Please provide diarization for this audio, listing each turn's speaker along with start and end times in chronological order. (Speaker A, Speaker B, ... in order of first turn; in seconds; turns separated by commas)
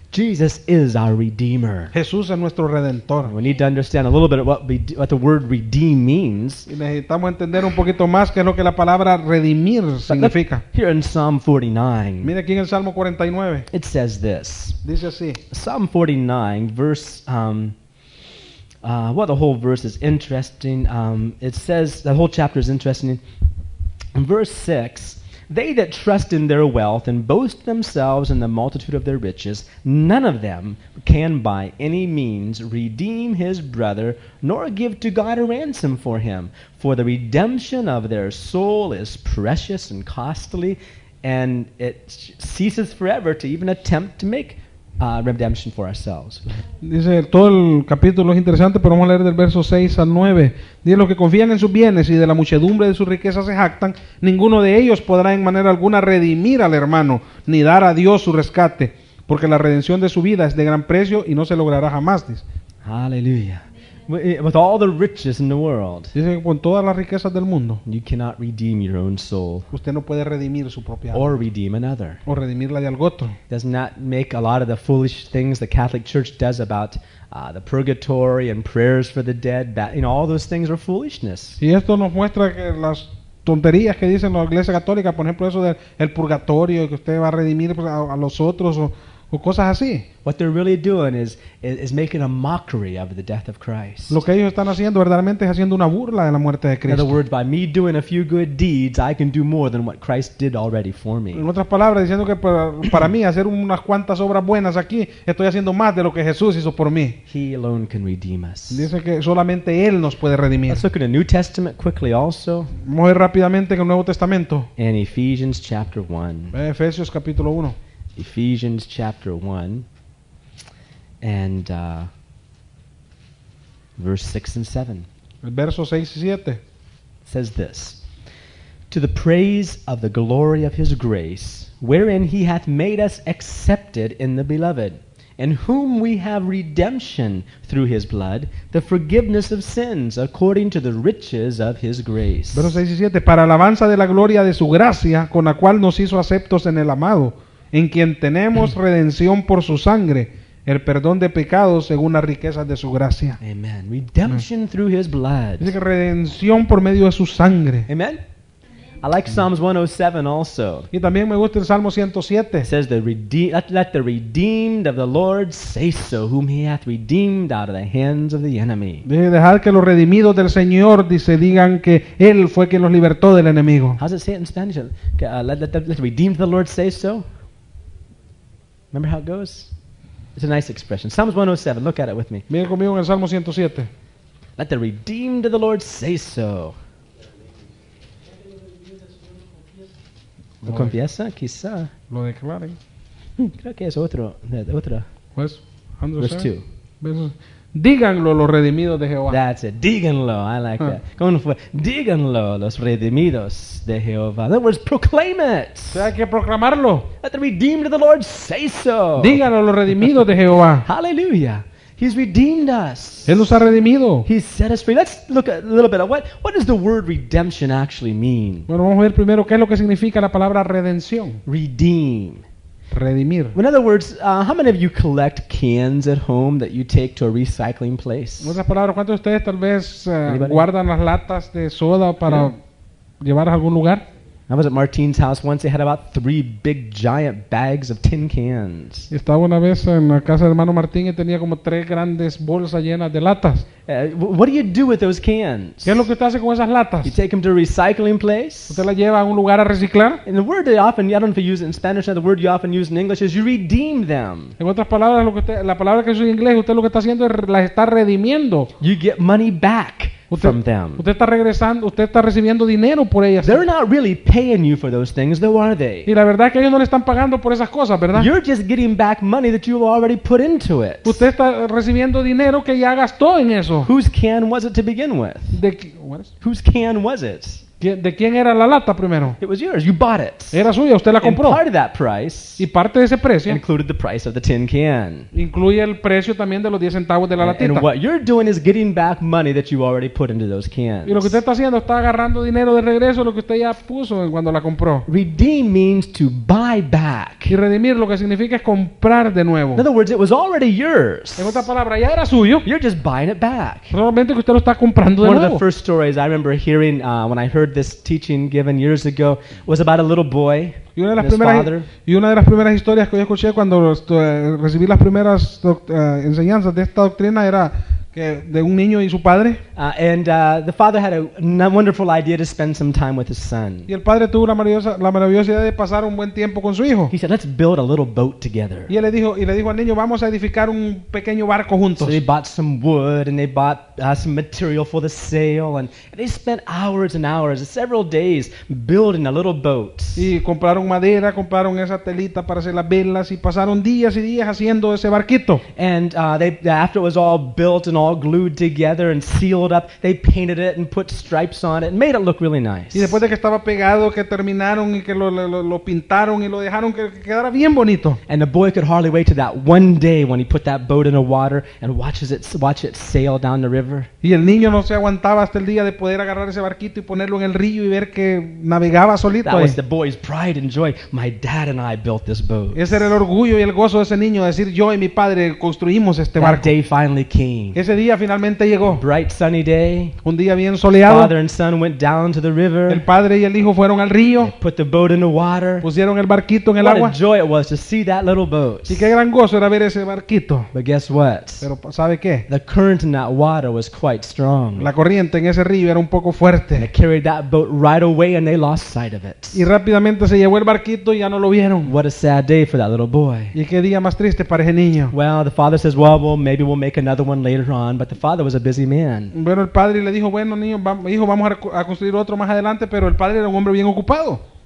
Speaker A: 0.1-1.9, Speaker B: 1.9-3.3, Speaker A: 3.2-6.7, Speaker B: 6.7-10.6, Speaker A: 10.1-12.3, Speaker B: 12.2-13.7, Speaker A: 13.7-14.8, Speaker B: 14.8-15.4, Speaker A: 15.5-17.7, Speaker A: 18.8-23.2, Speaker A: 24.1-46.6, Speaker B: 46.8-62.4, Speaker A: 62.8-66.1, Speaker B: 66.1-67.8, Speaker A: 67.8-69.7, Speaker B: 69.7-71.3, Speaker A: 71.1-72.2, Speaker B: 72.2-73.3, Speaker A: 73.5-81.6, Speaker B: 81.6-90.0, Speaker A: 90.2-94.2, Speaker B: 94.1-97.2, Speaker A: 96.9-101.4, Speaker B: 101.3-107.2, Speaker A: 107.3-108.9, Speaker B: 108.7-110.8, Speaker A: 110.7-112.7, Speaker B: 112.8-114.7, Speaker A: 114.8-116.5, Speaker B: 116.5-117.8, Speaker A: 118.2-119.8, Speaker A: 121.2-122.1, Speaker A: 124.0-125.1, Speaker B: 125.4-126.6, Speaker A: 127.2-128.0, Speaker A: 128.9-142.8, Speaker B: 142.5-153.4, Speaker A: 153.4-155.7, Speaker B: 155.6-157.9, Speaker A: 157.9-158.2, Speaker A: 159.0-160.9, Speaker B: 160.9-162.7, Speaker A: 162.6-169.1, Speaker B: 169.1-174.0, Speaker A: 174.0-177.2, Speaker A: 178.9-179.7, Speaker A: 180.3-182.4, Speaker B: 182.5-183.9, Speaker A: 184.6-186.8, Speaker B: 190.6-190.9, Speaker A: 190.6-191.9, Speaker B: 192.1-192.8, Speaker A: 193.4-195.1, Speaker B: 195.3-196.5, Speaker A: 196.2-196.6, Speaker B: 197.0-199.4, Speaker A: 199.3-206.1, Speaker B: 205.9-207.1, Speaker A: 207.2-209.4, Speaker B: 209.2-210.8, Speaker A: 210.8-213.5, Speaker B: 213.3-214.3, Speaker A: 214.2-218.7, Speaker B: 218.7-221.4, Speaker A: 221.4-222.4, Speaker B: 222.9-223.6, Speaker A: 223.5-228.6, Speaker B: 228.4-232.6, Speaker A: 230.3-230.7, Speaker B: 233.2-234.0, Speaker A: 234.5-239.1, Speaker B: 239.1-243.7, Speaker A: 243.9-246.0, Speaker B: 245.8-247.1, Speaker A: 247.0-248.8, Speaker B: 248.7-250.2, Speaker A: 250.2-254.6, Speaker B: 254.6-258.7, Speaker A: 258.8-261.0, Speaker B: 260.3-263.6, Speaker A: 263.4-266.1, Speaker B: 266.1-268.3, Speaker A: 268.1-271.2, Speaker B: 271.0-273.9, Speaker A: 273.8-275.6, Speaker B: 275.5-276.3, Speaker A: 276.4-277.6, Speaker B: 277.8-279.4, Speaker A: 279.4-280.6, Speaker B: 280.5-281.6, Speaker A: 281.2-282.6, Speaker B: 282.6-283.6, Speaker A: 283.5-285.3, Speaker B: 285.3-287.9, Speaker A: 287.4-291.4, Speaker B: 291.1-295.1, Speaker A: 295.1-297.6, Speaker B: 297.5-299.8, Speaker A: 299.7-301.7, Speaker B: 301.4-302.6, Speaker A: 302.6-303.9, Speaker B: 303.9-305.6, Speaker A: 305.2-311.9, Speaker B: 310.9-319.6, Speaker A: 319.8-323.9, Speaker B: 323.9-327.1, Speaker A: 327.1-328.9, Speaker B: 328.9-332.2, Speaker A: 332.0-340.3, Speaker B: 340.1-345.6, Speaker A: 345.8-353.2, Speaker B: 352.9-358.2, Speaker A: 358.3-364.1, Speaker B: 364.2-369.8, Speaker A: 369.4-373.2, Speaker B: 372.7-376.7, Speaker A: 376.4-377.8, Speaker B: 377.7-379.0, Speaker A: 378.9-380.2, Speaker B: 380.2-381.3, Speaker A: 381.0-383.0, Speaker B: 382.9-384.5, Speaker A: 384.4-385.9, Speaker B: 385.8-387.1, Speaker A: 386.8-389.1, Speaker B: 388.9-390.7, Speaker A: 390.7-391.6, Speaker B: 391.6-392.4, Speaker A: 392.5-394.9, Speaker B: 394.8-396.9, Speaker A: 396.7-399.7, Speaker B: 399.5-401.9, Speaker A: 401.8-403.5, Speaker B: 403.5-405.1, Speaker A: 405.1-409.3, Speaker B: 409.3-414.4